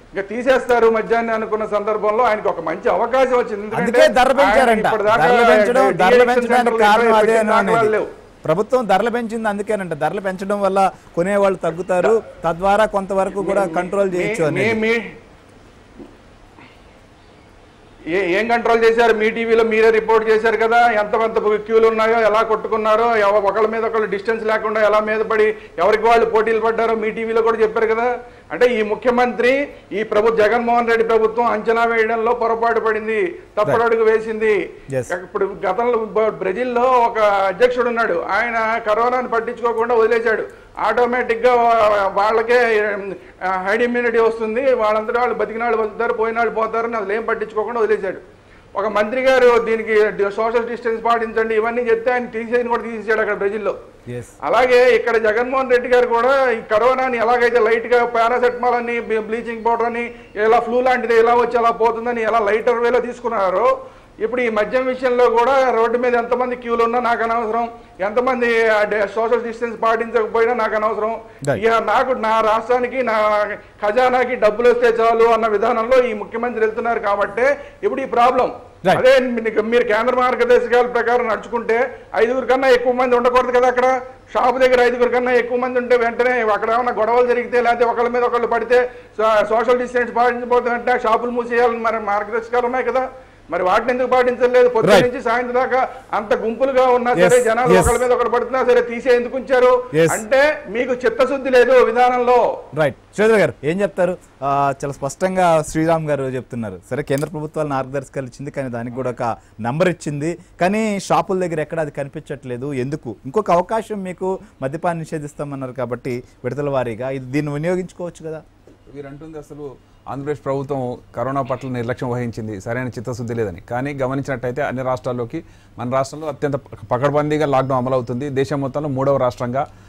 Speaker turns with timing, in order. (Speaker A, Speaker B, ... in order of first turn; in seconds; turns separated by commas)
Speaker A: 0.1-8.1, Speaker B: 3.7-7.9, Speaker B: 8.4-14.8, Speaker A: 13.3-15.0, Speaker A: 18.1-34.5, Speaker A: 35.1-48.2, Speaker A: 48.7-53.7, Speaker B: 54.1-54.3, Speaker A: 54.4-63.7, Speaker A: 64.2-102.4, Speaker B: 94.8-95.1, Speaker B: 97.1-98.0, Speaker B: 99.9-100.2, Speaker B: 102.7-118.4, Speaker C: 118.9-129.6